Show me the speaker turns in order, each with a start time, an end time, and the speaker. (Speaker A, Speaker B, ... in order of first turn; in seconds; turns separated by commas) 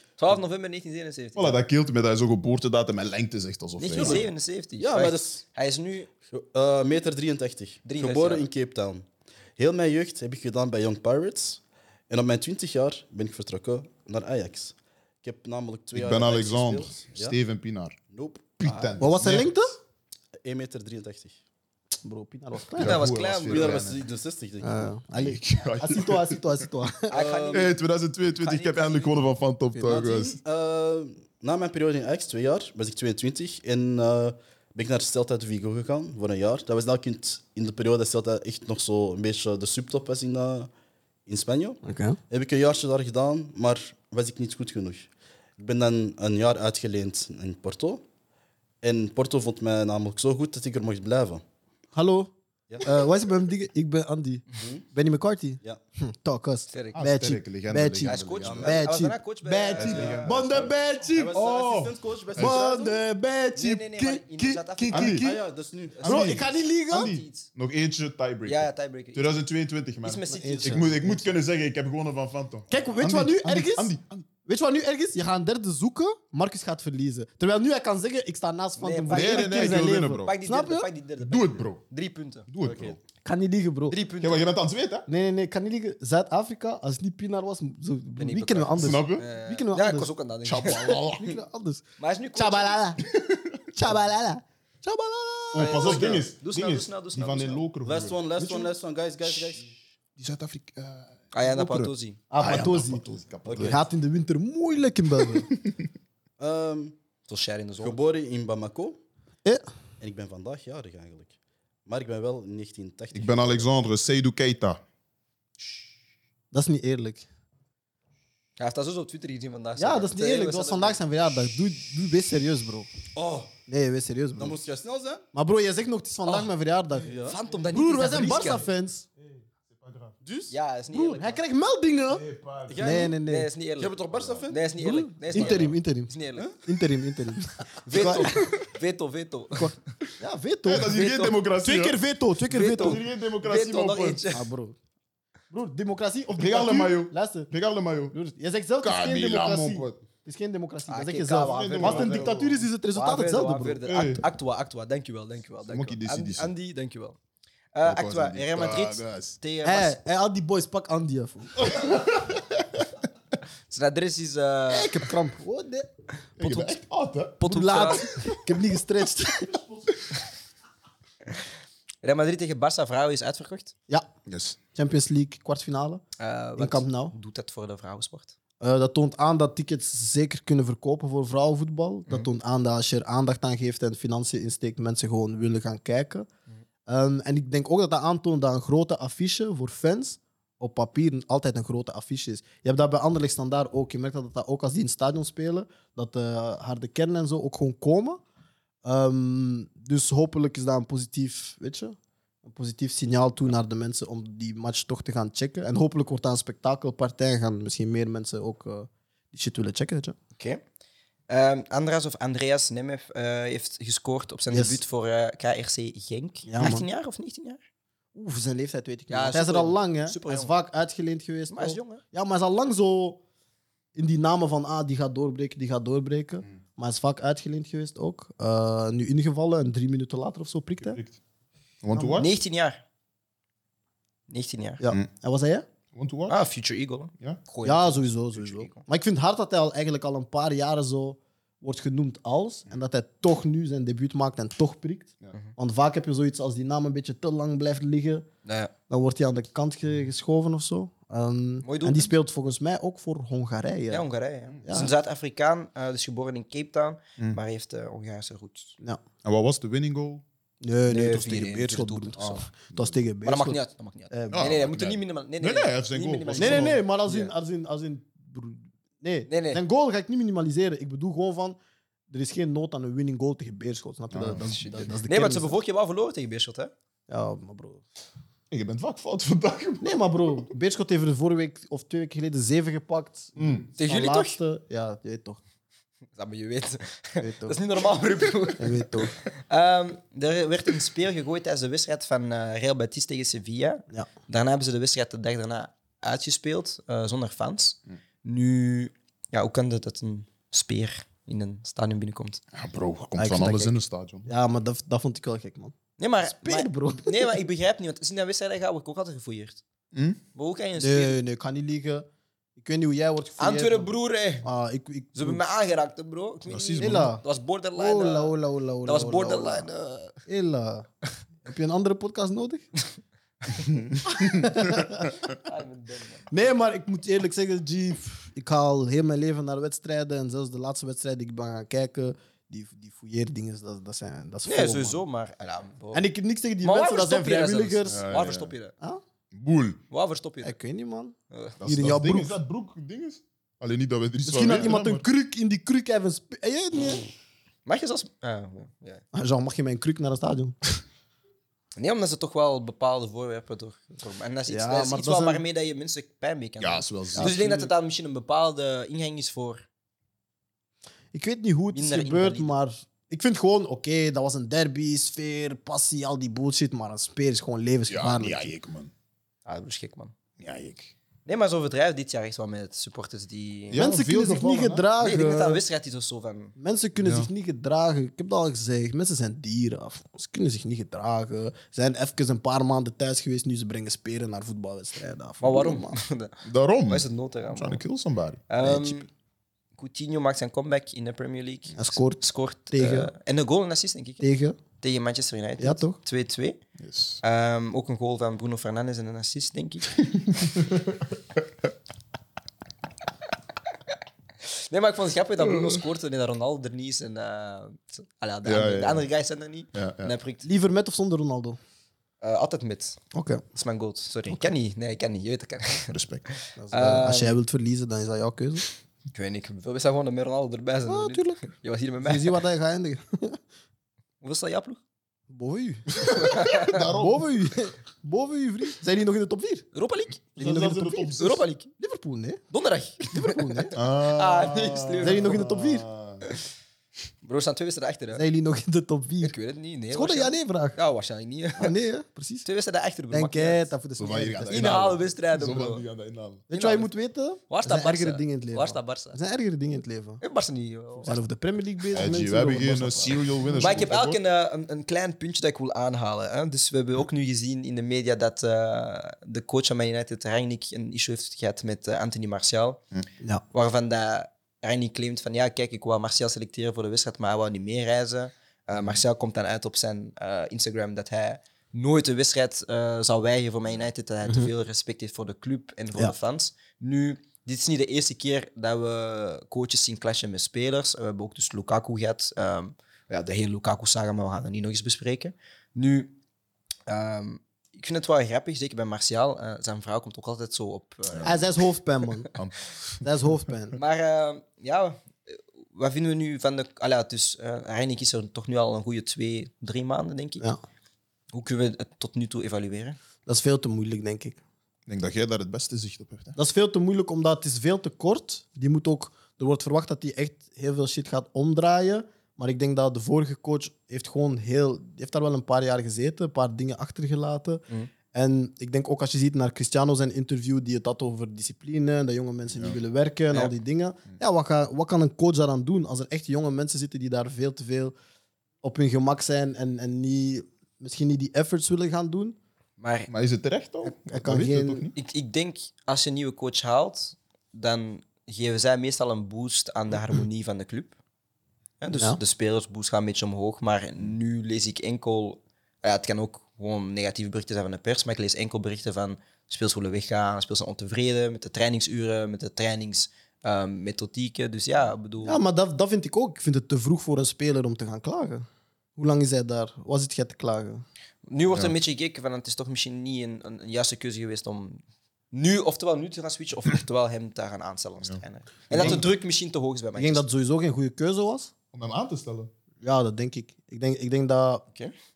Speaker A: 0.2-1.6, Speaker B: 1.4-4.2, Speaker A: 3.8-6.1, Speaker C: 4.0-5.4, Speaker C: 6.3-17.4, Speaker A: 7.8-8.5, Speaker B: 15.9-18.0, Speaker C: 18.1-18.5, Speaker B: 18.6-19.5, Speaker A: 18.6-18.9, Speaker D: 19.0-19.8, Speaker C: 20.4-21.4, Speaker D: 22.0-23.0, Speaker B: 22.8-24.0, Speaker A: 22.8-23.9, Speaker C: 23.5-24.9, Speaker D: 24.6-27.2, Speaker B: 25.1-26.6, Speaker A: 27.1-27.8, Speaker C: 27.1-27.7, Speaker B: 27.5-30.4, Speaker A: 28.4-29.2, Speaker C: 29.8-40.7, Speaker C: 41.3-48.0, Speaker D: 41.8-42.2, Speaker C: 48.8-51.4, Speaker D: 52.0-61.4, Speaker C: 52.7-53.0, Speaker C: 54.6-54.9, Speaker A: 56.7-57.0, Speaker B: 57.0-58.8, Speaker A: 58.0-60.7, Speaker C: 58.4-58.8, Speaker B: 59.8-60.5, Speaker C: 60.1-63.0, Speaker B: 61.3-62.6, Speaker D: 62.4-65.4, Speaker A: 63.5-65.2, Speaker B: 64.9-65.3, Speaker C: 65.2-66.0, Speaker A: 65.9-67.5, Speaker B: 66.0-74.3, Speaker D: 66.0-67.1, Speaker A: 68.5-69.3, Speaker A: 70.0-71.2, Speaker D: 70.3-71.2, Speaker D: 72.7-73.9, Speaker D: 74.5-80.9, Speaker A: 78.8-82.5, Speaker B: 79.1-80.3, Speaker B: 81.2-81.8, Speaker B: 82.5-83.0, Speaker C: 82.6-83.0, Speaker D: 83.2-84.0, Speaker A: 83.9-84.5, Speaker B: 84.2-85.1, Speaker D: 85.1-90.1, Speaker A: 88.2-91.0, Speaker B: 88.8-89.2, Speaker B: 90.5-91.4, Speaker D: 91.1-93.0, Speaker A: 92.0-92.8, Speaker B: 93.0-93.6, Speaker D: 93.7-96.2, Speaker B: 95.5-98.2, Speaker A: 95.5-97.6, Speaker C: 97.8-99.7, Speaker D: 98.4-98.7, Speaker B: 100.2-103.8, Speaker A: 101.3-102.2, Speaker D: 102.3-105.5, Speaker C: 103.5-103.8, Speaker C: 106.4-107.0, Speaker A: 107.3-108.0, Speaker C: 107.8-109.0, Speaker C: 110.0-111.3, Speaker C: 111.9-113.7, Speaker B: 113.1-114.8, Speaker D: 116.5-117.3, Speaker A: 118.6-121.0, Speaker D: 119.8-122.9, Speaker A: 123.2-123.5, Speaker D: 123.7-124.6, Speaker C: 124.4-125.2, Speaker D: 125.3-127.2, Speaker C: 127.0-127.4, Speaker A: 127.3-128.7, Speaker B: 127.3-128.6, Speaker D: 127.7-129.1, Speaker B: 129.2-130.1, Speaker C: 130.2-130.6, Speaker A: 130.5-131.4, Speaker D: 130.9-132.2, Speaker B: 132.1-133.1, Speaker C: 132.7-133.1, Speaker D: 132.8-133.5, Speaker A: 133.2-136.5, Speaker C: 133.8-134.6, Speaker B: 134.1-134.4, Speaker D: 134.8-138.5, Speaker C: 135.3-135.6, Speaker A: 137.8-139.7, Speaker B: 137.9-138.6, Speaker D: 139.6-143.0, Speaker B: 140.6-142.0, Speaker A: 142.5-144.5, Speaker B: 142.6-144.2, Speaker D: 144.3-144.8, Speaker D: 145.5-147.5, Speaker B: 146.4-148.2, Speaker D: 148.1-153.8, Speaker B: 148.8-150.0, Speaker A: 150.9-152.3, Speaker B: 151.4-152.6, Speaker A: 152.9-157.2, Speaker B: 153.9-154.2, Speaker B: 155.7-156.5, Speaker A: 157.7-160.0, Speaker B: 157.8-159.4, Speaker D: 159.6-161.7, Speaker B: 161.6-162.8, Speaker A: 163.7-165.0, Speaker D: 164.7-165.9, Speaker B: 166.4-168.4, Speaker D: 167.4-169.7, Speaker A: 167.4-168.1, Speaker A: 172.0-173.7, Speaker B: 174.3-174.6, Speaker D: 174.7-176.0, Speaker A: 176.2-178.3, Speaker D: 176.6-177.1, Speaker D: 178.6-186.3, Speaker D: 186.9-198.2, Speaker D: 198.8-210.2, Speaker A: 210.4-210.6, Speaker A: 211.3-217.6, Speaker D: 214.5-214.8, Speaker D: 216.4-216.8, Speaker D: 218.1-223.2, Speaker A: 219.1-220.5, Speaker A: 221.5-222.0, Speaker D: 223.9-231.0, Speaker B: 230.8-231.2, Speaker B: 231.8-232.3, Speaker D: 231.9-232.2, Speaker A: 232.2-232.8, Speaker A: 234.3-234.8, Speaker D: 234.8-235.7, Speaker B: 235.9-236.4, Speaker A: 236.3-238.8, Speaker D: 237.6-248.3, Speaker A: 248.4-248.7, Speaker D: 248.9-254.1, Speaker A: 251.6-252.1, Speaker A: 253.9-258.8, Speaker D: 254.6-254.9, Speaker B: 259.2-260.2, Speaker D: 260.6-263.6, Speaker A: 260.9-262.4, Speaker B: 262.2-262.9, Speaker A: 263.2-267.3, Speaker D: 264.1-264.5, Speaker B: 264.3-266.8, Speaker D: 266.4-271.6, Speaker A: 269.3-269.6, Speaker D: 272.1-275.6, Speaker B: 274.1-274.4, Speaker A: 274.4-276.7, Speaker D: 277.1-277.8, Speaker B: 278.5-280.3, Speaker D: 279.8-285.4, Speaker B: 283.4-283.7, Speaker A: 283.8-284.4, Speaker A: 286.1-302.4, Speaker D: 287.2-287.6, Speaker D: 288.6-289.1, Speaker B: 302.5-304.3, Speaker D: 303.2-305.7, Speaker A: 306.0-309.6, Speaker D: 306.4-307.3, Speaker B: 309.9-310.2, Speaker A: 310.4-311.2, Speaker D: 310.8-313.9, Speaker A: 313.4-314.5, Speaker D: 314.4-315.4, Speaker A: 315.1-320.2, Speaker B: 316.5-317.1, Speaker D: 316.8-317.2, Speaker D: 317.7-319.7, Speaker D: 320.3-320.9, Speaker D: 321.4-322.7, Speaker B: 323.7-324.9, Speaker D: 324.1-325.1, Speaker A: 325.3-326.3, Speaker D: 326.3-335.0, Speaker A: 334.4-336.1, Speaker D: 335.9-338.0, Speaker A: 336.6-338.7, Speaker B: 337.9-338.6, Speaker B: 339.3-339.8, Speaker A: 339.9-340.6, Speaker D: 340.4-342.4, Speaker A: 341.3-341.6, Speaker B: 341.6-345.0, Speaker D: 344.2-347.1, Speaker A: 347.7-349.0, Speaker D: 349.1-350.8, Speaker A: 351.8-359.6, Speaker D: 354.5-355.4, Speaker B: 356.6-357.7, Speaker D: 357.1-357.6, Speaker D: 361.1-368.4, Speaker A: 361.7-362.5, Speaker B: 367.9-368.9, Speaker A: 369.4-370.1, Speaker B: 370.4-370.9, Speaker A: 371.3-373.8, Speaker B: 373.7-374.9, Speaker D: 373.7-375.6, Speaker A: 375.0-376.5, Speaker D: 376.6-386.0, Speaker B: 377.0-377.3, Speaker A: 385.4-387.8, Speaker B: 386.4-388.5, Speaker A: 388.5-389.1, Speaker D: 388.6-388.9, Speaker A: 389.8-394.2, Speaker D: 391.8-393.1, Speaker D: 394.2-394.6, Speaker A: 394.8-396.6, Speaker D: 395.6-396.0, Speaker B: 396.8-397.2, Speaker A: 397.2-399.9, Speaker B: 400.4-401.0, Speaker A: 404.4-410.4, Speaker B: 408.4-409.1, Speaker B: 409.7-410.1, Speaker D: 410.4-411.6, Speaker A: 412.2-413.0, Speaker D: 413.1-413.4, Speaker A: 413.5-417.4, Speaker B: 415.9-416.2, Speaker D: 416.6-418.6, Speaker A: 419.1-422.4, Speaker D: 420.9-421.4, Speaker D: 422.0-423.4, Speaker A: 424.2-424.8, Speaker D: 425.3-425.9, Speaker A: 426.1-426.8, Speaker B: 426.5-427.5, Speaker D: 426.7-429.7, Speaker A: 429.7-430.4, Speaker B: 430.4-431.4, Speaker D: 430.4-431.1, Speaker A: 431.1-431.7, Speaker D: 431.8-432.4, Speaker A: 432.5-435.4, Speaker D: 433.1-433.7, Speaker B: 433.8-436.2, Speaker D: 435.0-435.9, Speaker A: 437.2-438.2, Speaker D: 438.1-439.3, Speaker A: 439.2-441.7, Speaker D: 439.9-440.8, Speaker D: 441.6-442.4, Speaker A: 442.4-443.7, Speaker D: 443.1-445.0, Speaker B: 444.0-446.4, Speaker A: 444.5-445.9, Speaker D: 446.5-450.2, Speaker A: 446.5-446.9, Speaker A: 447.5-449.2, Speaker A: 450.2-451.2, Speaker D: 451.0-453.9, Speaker B: 451.9-454.2, Speaker A: 453.6-462.8, Speaker A: 463.5-486.2, Speaker A: 486.9-491.4, Speaker B: 491.1-491.4, Speaker D: 491.2-492.3, Speaker B: 492.3-493.1, Speaker D: 493.0-493.8, Speaker A: 493.8-500.4, Speaker A: 501.3-503.0, Speaker D: 503.3-504.4, Speaker B: 504.9-506.3, Speaker D: 506.4-528.0, Speaker D: 528.6-532.4, Speaker A: 532.8-533.1, Speaker B: 533.1-534.9, Speaker D: 533.8-534.9, Speaker A: 535.0-541.0, Speaker A: 541.8-555.4, Speaker D: 541.9-542.2, Speaker D: 555.2-560.8, Speaker A: 561.3-570.2, Speaker B: 561.5-561.7, Speaker B: 568.0-569.1, Speaker D: 568.7-569.0, Speaker D: 570.0-571.5, Speaker B: 571.7-572.5, Speaker D: 572.8-574.6